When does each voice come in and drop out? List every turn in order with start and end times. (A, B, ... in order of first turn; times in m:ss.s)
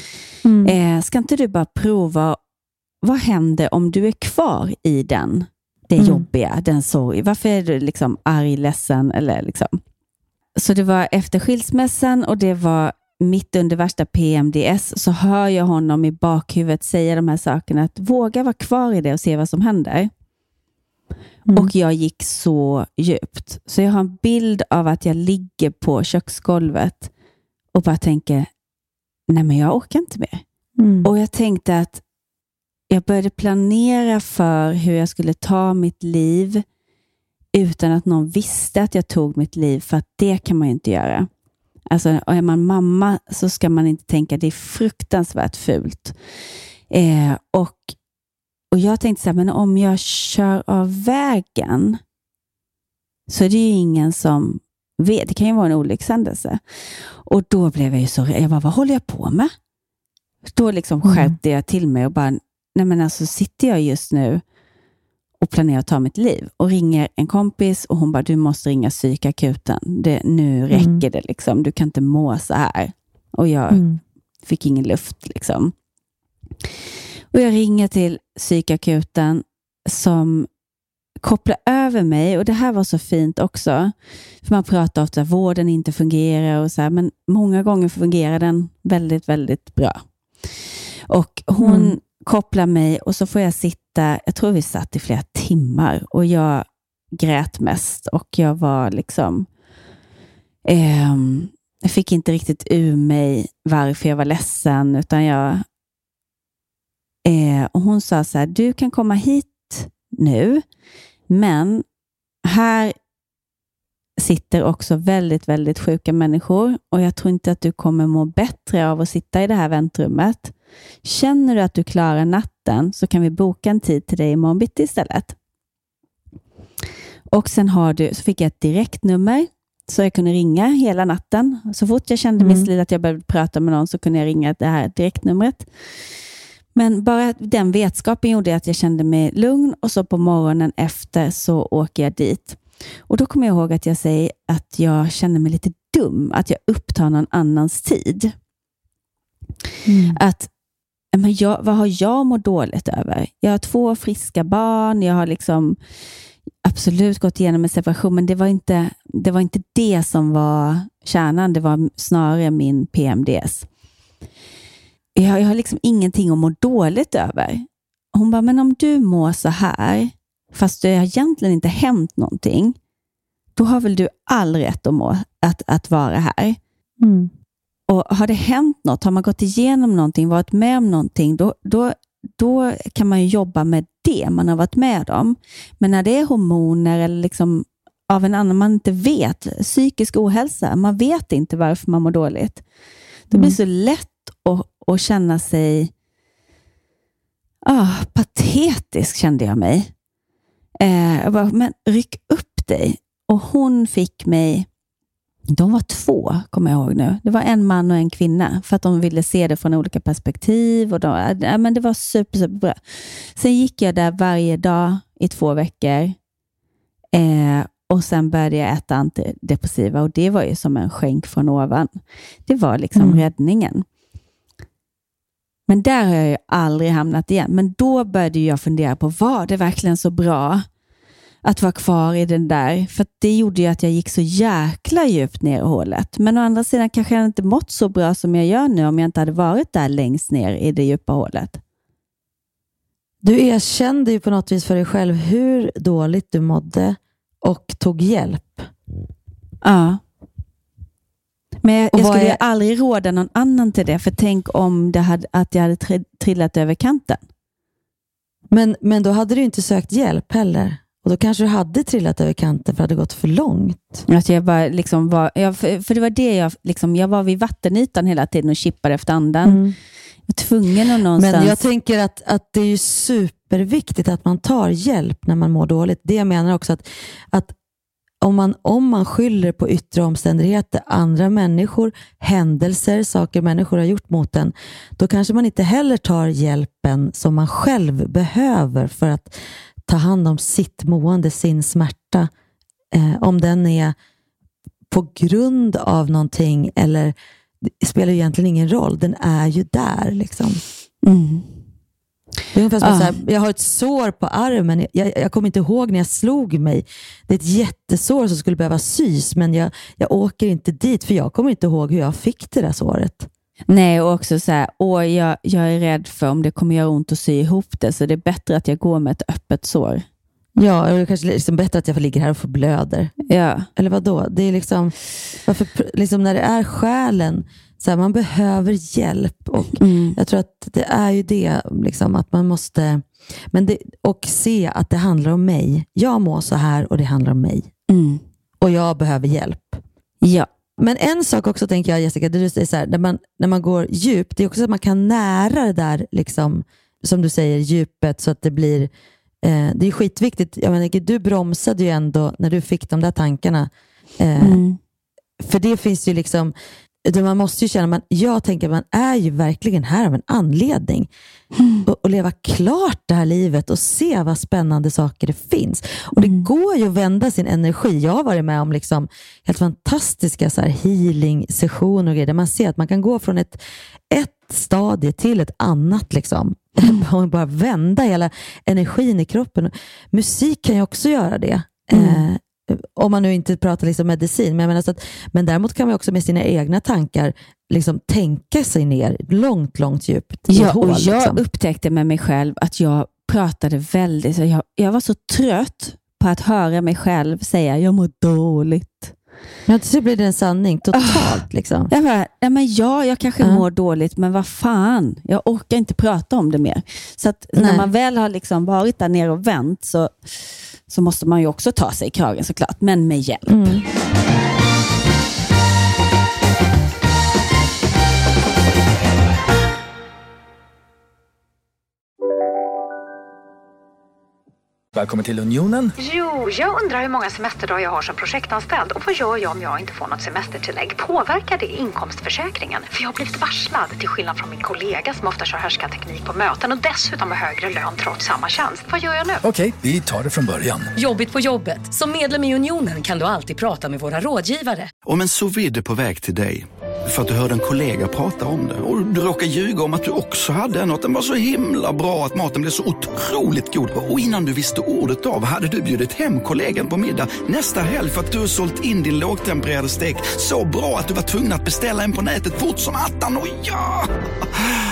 0:00.4-0:00.7 A
0:00.6-0:02.4 B
0:03.0-0:09.8 B
0:06.0-0:06.3 A
0:10.6-0:20.1 B
0:21.5-0:27.1 B
0:27.7-0:28.5 B
0:29.3-0:30.4 B
0:30.8-0:31.1 A
0:31.0-0:32.0 B
0:32.9-0:36.6 B
0:37.5-0:41.3 B
0:41.9-0:46.1 B
0:46.9-0:47.9 B
0:48.7-0:52.0 B
0:53.3-0:56.6 B
0:57.2-0:59.5 B
1:00.5-1:04.4 B
1:01.0-1:01.4 A
1:05.4-1:13.8 B
1:10.7-1:11.0 A
1:13.7-1:14.0 A
1:14.4-1:15.7 B
1:17.3-1:20.5 B
1:21.2-1:30.0 B
1:31.1-1:39.5 B
1:31.6-1:31.9 A
1:40.6-1:45.6 B
1:47.2-1:50.6 B
1:51.3-1:51.8 B
1:52.4-1:52.9 B
1:54.2-2:00.5 B
2:01.0-2:05.3 B
2:07.3-2:15.7 B
2:12.4-2:12.7 A
2:16.7-2:28.3 B
2:29.9-2:30.2 A
2:30.2-2:30.5 B
2:31.1-2:35.8 B
2:36.6-2:43.7 B
2:45.2-2:52.7 B
2:53.6-2:56.6 B
2:57.0-2:57.3 A
2:57.9-3:12.6 B
3:13.3-3:15.9 B
3:17.6-3:19.9 B
3:20.8-3:24.6 B
3:25.5-3:32.8 B
3:33.4-3:36.2 B
3:37.1-3:43.8 B
3:43.0-3:43.2 A
3:45.7-3:50.6 B
3:51.4-4:01.6 B
4:03.2-4:08.7 A
4:09.6-4:10.0 B
4:11.6-4:17.2 B
4:11.9-4:12.4 A
4:18.5-4:24.0 A
4:24.1-4:29.6 B
4:29.4-4:29.7 A
4:30.3-4:31.5 B
4:31.1-4:37.5 A
4:38.2-4:49.3 A
4:49.9-4:52.3 A
4:52.9-4:53.9 A
4:54.9-5:00.6 A
5:01.0-5:01.5 B
5:02.5-5:13.3 A
5:02.8-5:03.1 B
5:13.7-5:20.0 B
5:20.6-5:23.1 A
5:23.3-5:23.7 B
5:23.7-5:24.9 A
5:25.4-5:37.7 A
5:29.7-5:30.2 B
5:37.9-5:38.2 B
5:38.6-5:39.8 A
5:40.2-5:40.5 B
5:40.8-5:48.9 A
5:49.4-5:54.6 A
5:54.4-5:54.8 B
5:55.4-5:56.5 A
5:57.0-6:01.1 A
6:01.6-6:01.8 B
6:01.8-6:31.4 A
6:06.2-6:06.4 B
6:21.9-6:22.2 B
6:30.5-6:39.1 B
6:39.7-6:41.9 A
6:40.9-6:50.4 B
6:47.5-6:47.9 A
6:50.9-6:53.5 B
6:53.5-6:53.8 A
7:05.0-7:05.9 C
7:06.0-7:19.4 D
7:19.4-7:20.9 C
7:21.0-7:24.9 E
7:25.0-7:44.8 F